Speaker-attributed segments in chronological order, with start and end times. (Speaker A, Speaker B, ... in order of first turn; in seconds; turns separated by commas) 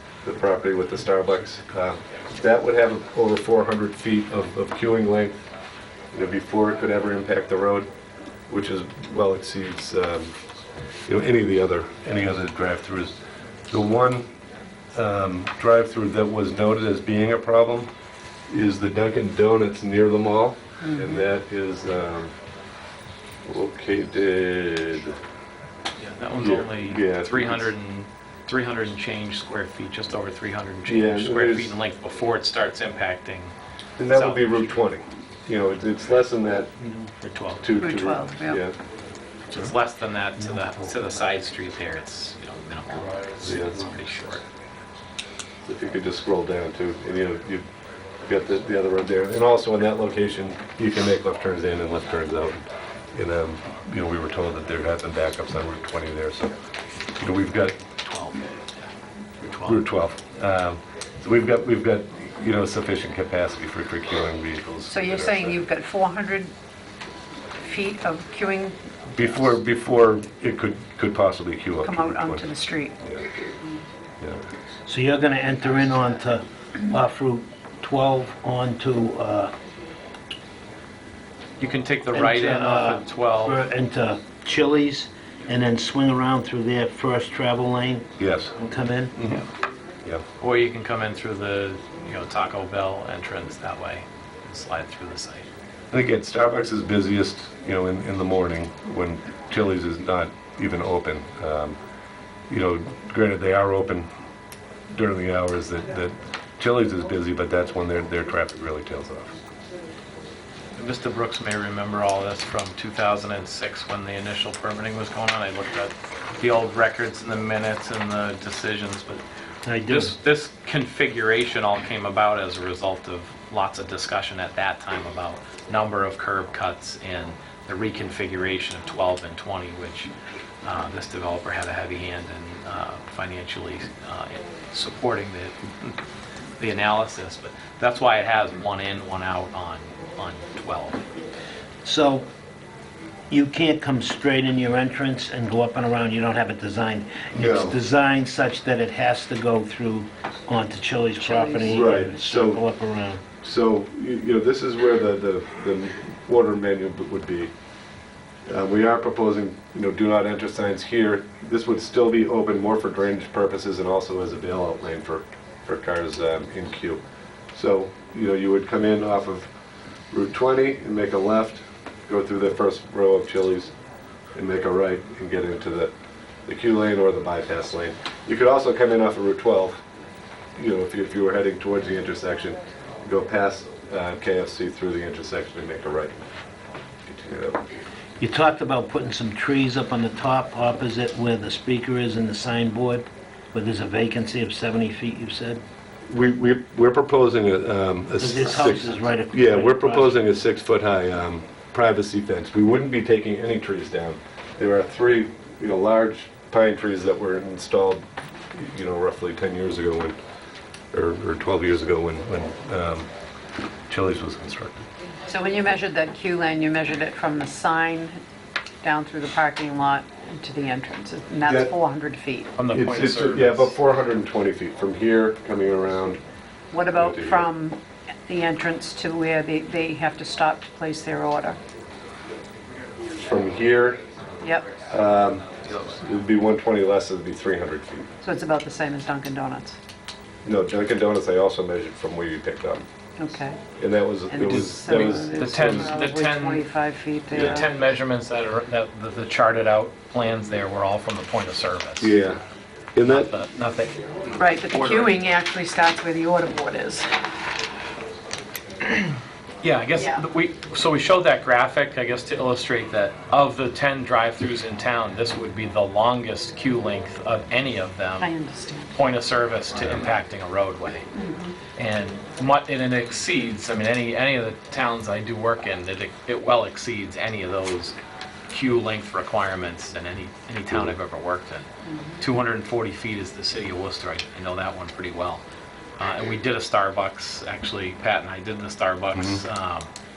Speaker A: 0.2-5.5, Speaker A: 6.1-7.9, Speaker A: 8.5-10.3, Speaker A: 11.1-13.2, Speaker A: 13.7-14.3, Speaker A: 14.9-17.9, Speaker A: 18.5-22.3, Speaker B: 20.8-21.1, Speaker A: 23.4-25.2, Speaker C: 26.0-33.5, Speaker A: 26.4-27.7, Speaker A: 30.9-31.7, Speaker A: 34.0-36.8, Speaker C: 34.1-34.7, Speaker C: 37.1-37.6, Speaker A: 37.6-38.8, Speaker B: 37.8-38.6, Speaker C: 39.5-44.4, Speaker A: 43.4-43.8, Speaker A: 45.6-47.6, Speaker A: 48.2-56.5, Speaker A: 57.2-57.8, Speaker C: 58.0-58.5, Speaker C: 59.4-59.8, Speaker A: 59.6-65.6, Speaker B: 64.9-66.5, Speaker B: 67.6-68.8, Speaker A: 69.1-72.5, Speaker B: 71.8-73.0, Speaker D: 74.9-79.5, Speaker C: 81.6-83.6, Speaker D: 82.1-89.1, Speaker A: 88.2-88.5, Speaker A: 89.2-89.4, Speaker C: 90.4-95.5, Speaker A: 95.9-101.8, Speaker A: 102.5-104.1, Speaker A: 104.9-109.4, Speaker C: 110.8-119.2, Speaker D: 119.7-120.1, Speaker C: 119.9-130.1, Speaker C: 130.6-136.0, Speaker C: 136.6-141.1, Speaker D: 141.8-142.3, Speaker D: 143.3-153.2, Speaker A: 147.3-147.8, Speaker B: 151.2-151.8, Speaker A: 151.6-152.6, Speaker A: 153.4-157.5, Speaker A: 158.5-167.0, Speaker A: 167.5-169.5, Speaker A: 170.1-173.7, Speaker A: 174.3-175.9, Speaker A: 176.5-179.8, Speaker A: 180.6-186.2, Speaker A: 187.1-187.6, Speaker D: 188.2-195.6, Speaker A: 196.1-208.0, Speaker D: 198.2-200.2, Speaker A: 208.6-210.2, Speaker A: 210.9-213.1, Speaker A: 213.9-214.9, Speaker B: 215.3-218.2, Speaker B: 218.8-222.5, Speaker A: 221.4-221.7, Speaker C: 222.6-223.8, Speaker A: 222.7-226.2, Speaker B: 226.7-231.6, Speaker A: 226.9-227.5, Speaker A: 233.2-234.0, Speaker B: 234.4-234.7, Speaker A: 234.9-238.1, Speaker B: 238.2-239.8, Speaker A: 240.4-242.8, Speaker B: 243.2-243.6, Speaker A: 243.8-245.9, Speaker B: 244.3-247.7, Speaker C: 245.0-246.7, Speaker A: 247.3-247.7, Speaker C: 247.3-252.1, Speaker A: 252.0-252.4, Speaker A: 252.9-253.3, Speaker C: 253.1-254.0, Speaker B: 254.4-257.1, Speaker C: 254.7-255.2, Speaker C: 259.6-268.3, Speaker B: 260.0-260.2, Speaker B: 268.2-268.9, Speaker C: 268.9-271.1, Speaker B: 271.1-271.6, Speaker C: 271.8-278.0, Speaker C: 278.5-281.7, Speaker B: 281.9-282.2, Speaker C: 282.2-285.4, Speaker C: 286.0-289.9, Speaker A: 289.1-289.4